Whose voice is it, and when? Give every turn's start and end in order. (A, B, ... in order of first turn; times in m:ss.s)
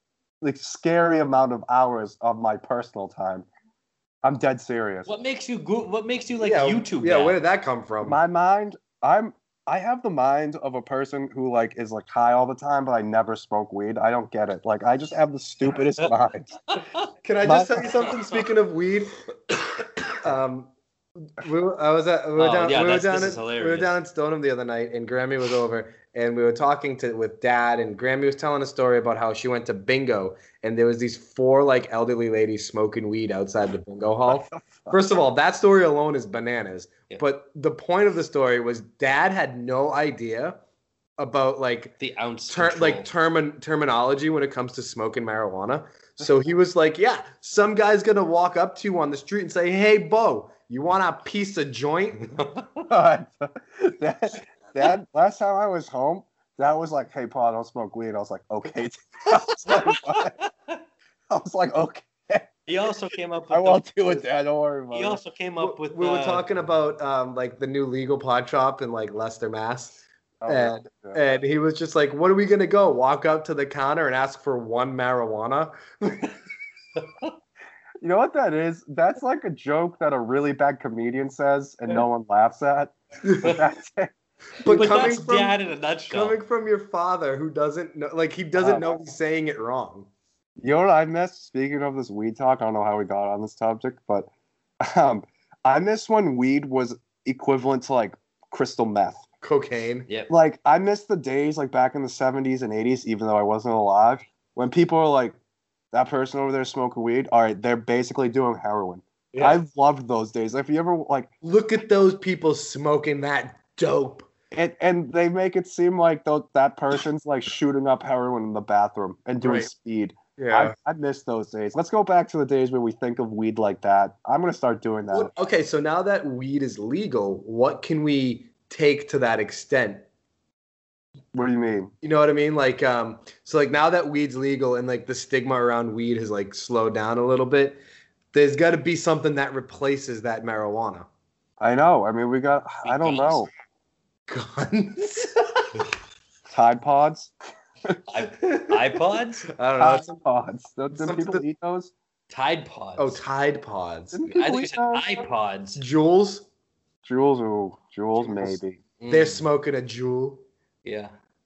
0:00.4-0:03.5 A
0:04.2-0:05.1 A
0:05.1-0:07.4 B
0:06.4-0:08.2 C
0:08.0-0:16.5 A
0:16.7-0:17.0 B
0:17.2-0:19.2 C
0:17.4-0:17.9 A
0:20.2-0:20.7 C
0:21.4-0:40.6 C
0:22.4-0:23.9 B
0:34.3-0:35.0 A
0:41.2-0:42.0 C
0:42.0-0:43.1 B
0:42.5-0:52.4 C
0:52.9-1:00.3 A
0:59.7-1:00.8 B
1:01.3-1:02.5 A
1:02.7-1:04.0 B
1:03.5-1:05.2 A
1:04.9-1:06.5 B
1:05.6-1:16.4 C
1:10.4-1:11.2 A
1:18.0-1:24.1 A
1:23.2-1:23.6 C
1:24.6-1:25.6 C
1:24.6-1:26.4 B
1:26.1-1:30.1 C
1:28.6-1:28.9 A
1:30.6-1:34.3 A
1:34.8-1:39.2 A
1:39.4-1:40.1 C
1:40.1-1:40.3 B
1:40.3-1:45.4 A
1:45.9-1:51.3 A
1:49.3-1:49.6 C
1:51.4-1:54.3 C
1:54.5-2:05.3 A
1:59.4-1:59.7 C
2:00.4-2:00.7 C
2:05.1-2:10.0 C
2:11.3-2:11.9 A
2:12.0-2:17.8 C
2:18.3-2:21.1 C
2:21.6-2:23.5 A
2:22.8-2:23.5 B
2:24.3-2:25.8 C
2:26.5-2:27.3 A
2:28.1-2:29.5 B
2:28.5-2:28.8 C
2:29.5-2:30.2 C
2:29.8-2:31.9 A
2:30.9-2:31.4 C
2:32.3-2:33.2 B
2:33.0-2:34.2 C
2:34.1-2:35.1 A
2:34.3-2:35.8 B
2:35.8-2:36.5 C
2:37.0-2:38.8 A
2:39.0-2:39.4 B
2:39.1-2:40.4 C
2:40.8-2:41.1 B